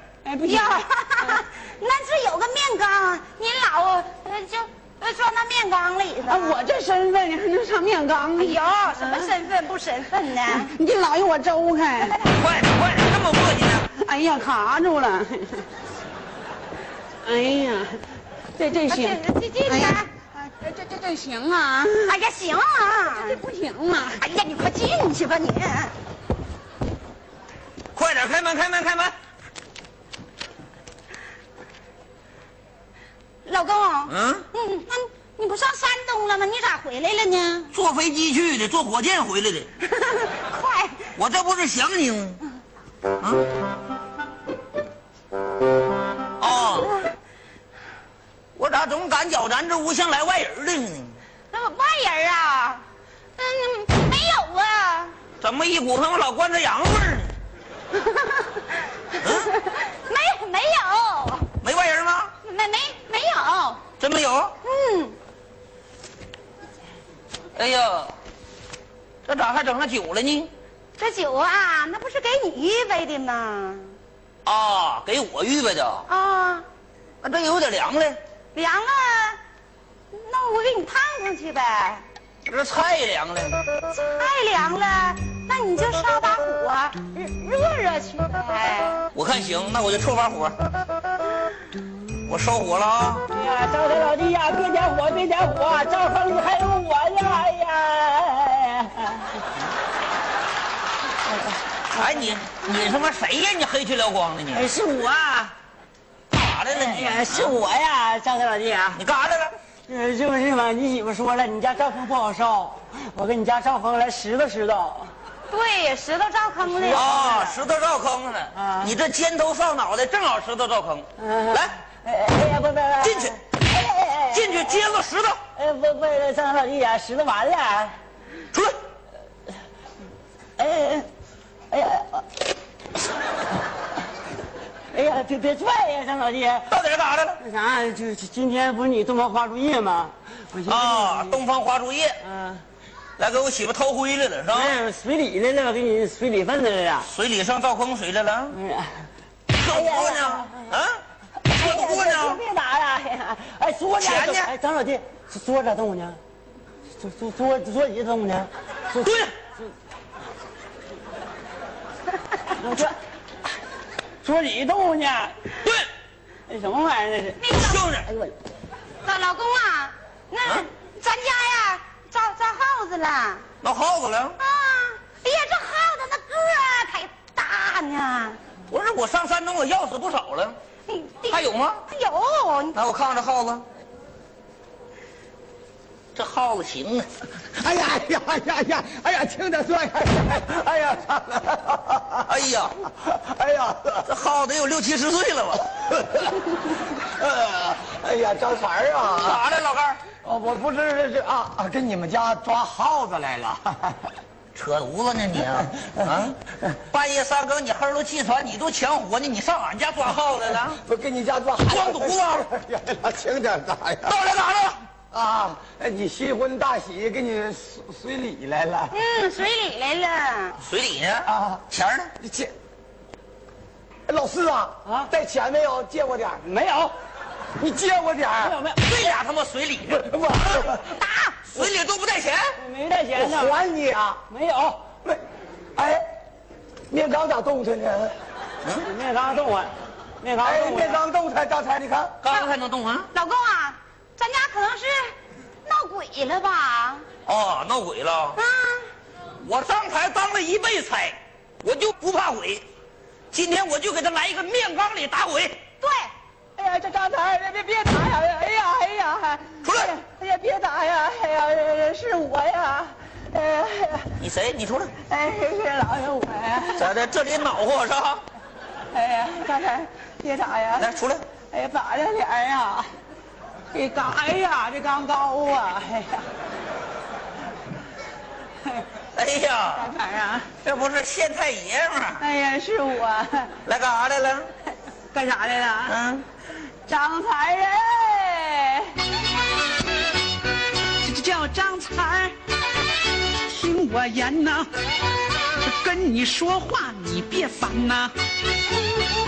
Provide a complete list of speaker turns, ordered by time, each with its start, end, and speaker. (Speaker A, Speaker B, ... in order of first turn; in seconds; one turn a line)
Speaker A: 0.2-1.4
Speaker B: 0.5-6.6
Speaker A: 6.3-9.3
Speaker B: 8.4-10.7
Speaker A: 10.5-12.2
Speaker B: 12.0-12.4
Speaker C: 12.3-13.9
Speaker A: 14.0-15.7
Speaker A: 17.2-18.0
Speaker A: 18.6-22.1
Speaker B: 18.9-20.1
Speaker B: 22.1-23.4
Speaker A: 23.1-24.2
Speaker B: 24.2-25.9
Speaker C: 27.9-29.1
Speaker B: 33.5-37.7
Speaker C: 34.1-34.5
Speaker C: 37.7-39.7
Speaker B: 40.5-41.1
Speaker C: 41.2-42.4
Speaker C: 43.2-43.5
Speaker C: 46.4-47.0
Speaker B: 46.6-47.0
Speaker C: 48.5-51.2
Speaker B: 51.5-52.8
Speaker B: 53.4-55.2
Speaker C: 55.4-57.3
Speaker C: 59.2-59.5
Speaker B: 59.2-61.5
Speaker C: 61.6-62.3
Speaker B: 62.4-63.8
Speaker C: 64.0-64.5
Speaker B: 64.6-65.2
Speaker C: 67.6-68.1
Speaker C: 69.2-70.5
Speaker B: 71.0-73.9
Speaker C: 74.5-76.0
Speaker B: 76.1-76.7
Speaker C: 77.2-78.2
Speaker B: 78.5-79.4
Speaker B: 80.1-82.0
Speaker C: 82.5-83.6
Speaker B: 83.9-89.1
Speaker C: 89.2-90.6
Speaker C: 92.3-93.2
Speaker D: 93.3-99.4
Speaker C: 101.9-104.7
Speaker D: 102.0-102.4
Speaker D: 104.5-105.5
Speaker C: 106.3-107.6
Speaker D: 106.7-109.0
Speaker C: 109.0-109.5
Speaker D: 109.9-115.1
Speaker B: 115.5-117.1
Speaker D: 116.6-117.6
Speaker C: 116.9-121.8
Speaker D: 118.5-119.0
Speaker D: 121.2-124.8
Speaker C: 123.0-123.4
Speaker C: 124.3-125.4
Speaker D: 125.6-128.0
Speaker D: 130.6-131.1
Speaker D: 131.7-132.3
Speaker D: 134.9-136.7
Speaker C: 136.7-137.4
Speaker D: 137.4-141.4
Speaker C: 140.7-142.2
Speaker D: 142.2-142.6
Speaker C: 143.2-144.8
Speaker D: 144.5-147.1
Speaker C: 147.1-148.6
Speaker D: 148.5-149.1
Speaker C: 149.5-152.4
Speaker D: 149.6-150.8
Speaker D: 151.4-156.2
Speaker C: 154.0-154.5
Speaker D: 157.0-159.7
Speaker C: 159.0-159.3
Speaker D: 162.6-163.0
Speaker D: 164.2-165.4
Speaker C: 165.6-165.9
Speaker D: 166.5-167.4
Speaker B: 167.4-167.9
Speaker C: 167.5-168.1
Speaker B: 169.0-173.5
Speaker C: 173.6-174.4
Speaker B: 174.4-178.4
Speaker C: 178.7-180.6
Speaker B: 180.9-182.8
Speaker C: 181.3-181.8
Speaker C: 182.8-183.6
Speaker C: 186.2-187.1
Speaker E: 187.5-192.3
Speaker C: 192.3-192.8
Speaker E: 193.0-194.1
Speaker C: 194.1-195.7
Speaker E: 195.8-199.4
Speaker C: 199.1-200.0
Speaker E: 200.2-204.1
Speaker C: 204.6-210.8
Speaker E: 210.8-214.2
Speaker C: 211.7-212.3
Speaker C: 214.1-214.8
Speaker E: 215.1-218.9
Speaker B: 218.9-220.6
Speaker C: 220.6-222.1
Speaker E: 221.2-221.6
Speaker E: 222.2-222.5
Speaker E: 224.1-226.5
Speaker D: 224.9-225.1
Speaker D: 226.5-226.9
Speaker E: 227.6-228.6
Speaker D: 228.4-229.2
Speaker C: 228.8-230.1
Speaker E: 229.9-231.0
Speaker C: 231.5-232.6
Speaker D: 232.6-233.6
Speaker E: 233.2-234.2
Speaker D: 234.3-234.9
Speaker E: 235.8-236.0
Speaker E: 236.9-238.1
Speaker D: 238.8-241.0
Speaker E: 240.4-242.2
Speaker C: 242.2-243.1
Speaker B: 243.1-245.1
Speaker B: 245.7-247.1
Speaker C: 247.3-248.4
Speaker B: 248.4-248.9
Speaker C: 249.4-252.6
Speaker C: 253.3-255.6
Speaker B: 255.8-256.1
Speaker A: 256.6-264.1
Speaker C: 259.6-259.9
Speaker C: 264.2-264.9
Speaker A: 265.1-266.9
Speaker C: 266.8-268.2
Speaker A: 268.9-271.0
Speaker C: 270.8-271.2
Speaker A: 271.5-272.9
Speaker A: 273.7-276.3
Speaker C: 279.1-279.9
Speaker A: 279.7-280.5
Speaker C: 280.6-282.2
Speaker A: 282.2-283.6
Speaker C: 283.6-284.5
Speaker A: 285.1-285.9
Speaker C: 285.9-286.2
Speaker A: 286.9-289.0
Speaker A: 291.0-292.4
Speaker A: 293.4-294.7
Speaker A: 295.6-298.1